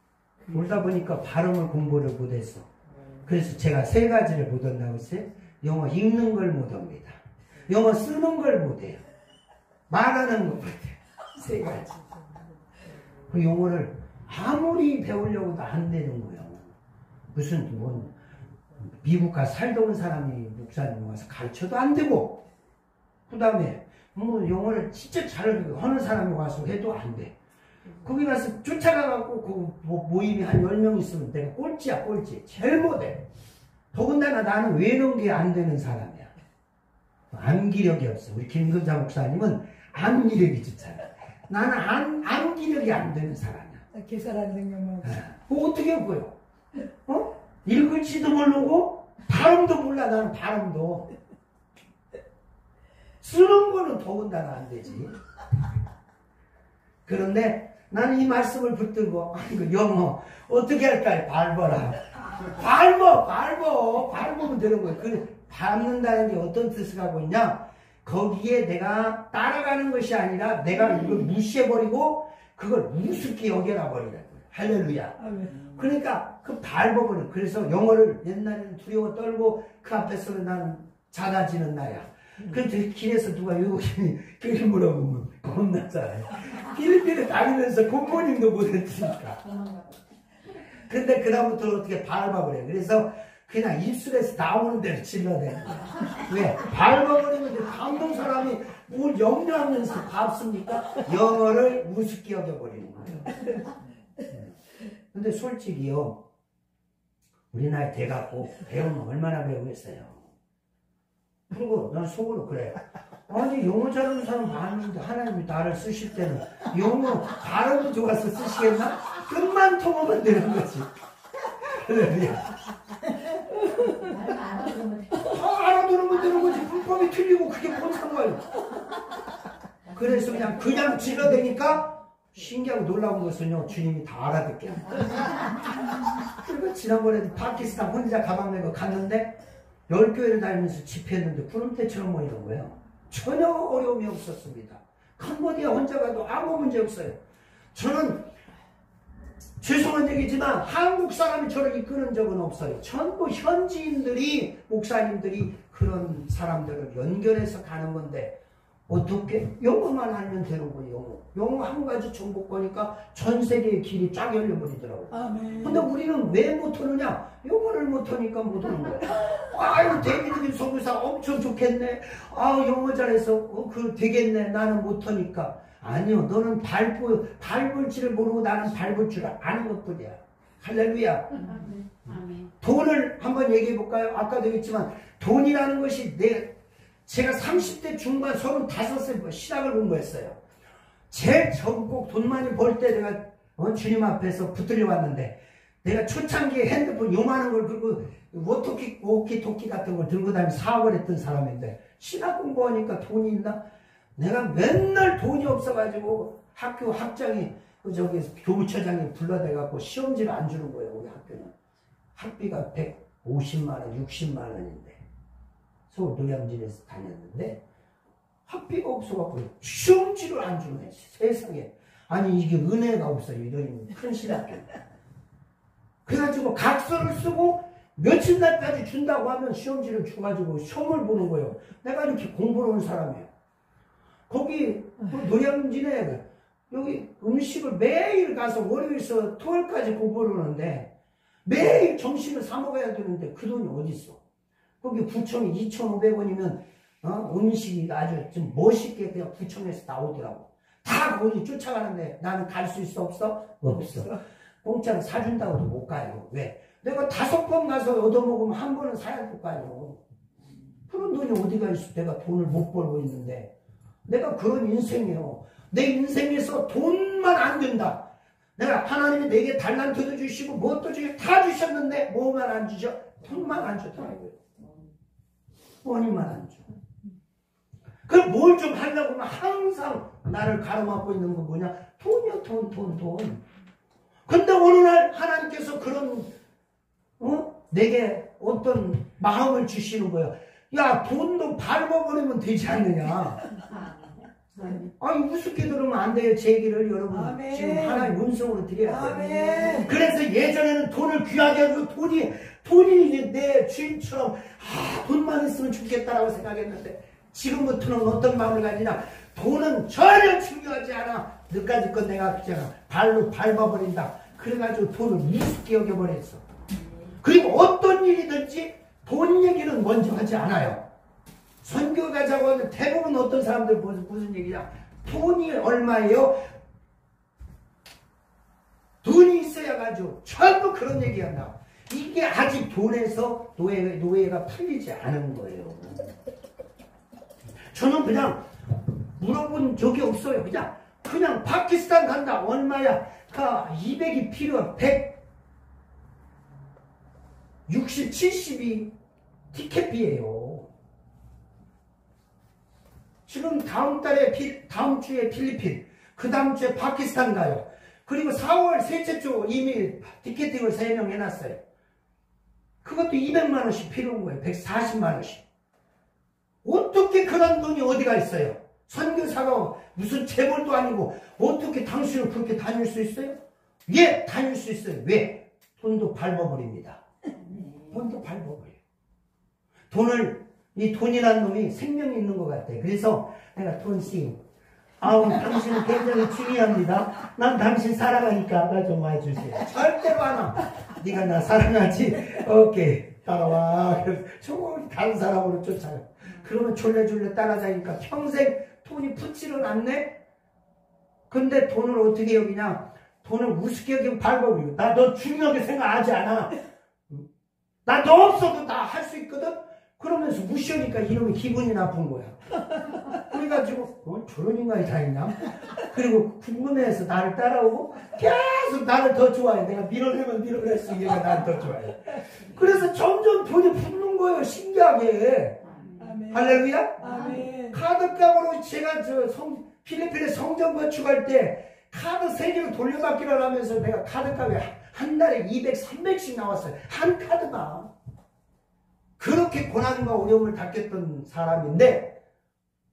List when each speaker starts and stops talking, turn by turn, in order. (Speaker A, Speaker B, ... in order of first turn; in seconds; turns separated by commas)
Speaker A: 0.5-2.7, Speaker A: 3.2-9.0, Speaker A: 9.9-12.0, Speaker A: 13.3-16.7, Speaker A: 17.3-18.1, Speaker A: 18.8-22.4, Speaker A: 23.3-27.3, Speaker A: 28.0-33.2, Speaker A: 33.9-36.3, Speaker A: 37.3-43.8, Speaker B: 43.9-45.2, Speaker A: 45.0-46.3, Speaker A: 47.0-51.1, Speaker A: 53.2-55.1, Speaker A: 57.0-89.4, Speaker B: 75.2-75.6, Speaker C: 89.4-89.9, Speaker A: 90.9-103.4, Speaker A: 105.1-106.2, Speaker A: 107.5-110.2, Speaker A: 111.5-120.9, Speaker A: 121.6-122.5, Speaker C: 123.8-125.4, Speaker A: 125.2-128.4, Speaker C: 126.2-126.8, Speaker C: 129.9-131.0, Speaker A: 129.9-135.3, Speaker A: 136.4-139.3, Speaker A: 139.9-147.2, Speaker A: 147.7-148.3, Speaker A: 149.6-158.3, Speaker A: 158.9-181.4, Speaker B: 165.1-165.9, Speaker C: 181.4-182.5, Speaker A: 182.6-186.6, Speaker A: 187.1-190.4, Speaker A: 191.1-203.6, Speaker A: 204.2-211.5, Speaker A: 212.1-215.0, Speaker A: 215.9-217.6, Speaker A: 218.5-224.7, Speaker A: 226.1-233.3, Speaker A: 234.3-240.9, Speaker A: 241.4-244.2, Speaker A: 244.8-260.0, Speaker A: 260.9-263.5, Speaker A: 264.1-268.0, Speaker A: 268.6-274.4, Speaker A: 275.8-276.6, Speaker A: 278.1-283.4, Speaker A: 284.3-286.3, Speaker A: 287.2-293.4, Speaker C: 293.7-294.8, Speaker A: 295.0-316.4, Speaker B: 297.1-298.1, Speaker B: 298.9-299.9, Speaker A: 317.2-320.8, Speaker A: 321.6-326.4, Speaker A: 329.0-336.1, Speaker A: 337.7-338.4, Speaker A: 339.2-345.2, Speaker A: 347.7-348.9, Speaker A: 349.5-350.7, Speaker A: 353.3-361.6, Speaker A: 362.8-365.4, Speaker A: 366.6-377.0, Speaker C: 377.5-377.9, Speaker A: 377.9-378.8, Speaker A: 379.9-384.4, Speaker A: 385.0-400.1, Speaker A: 401.3-406.5, Speaker A: 407.8-412.4, Speaker A: 413.1-425.6, Speaker C: 425.6-426.2, Speaker B: 426.0-427.8, Speaker A: 426.3-437.9, Speaker C: 427.0-427.4, Speaker A: 439.2-442.2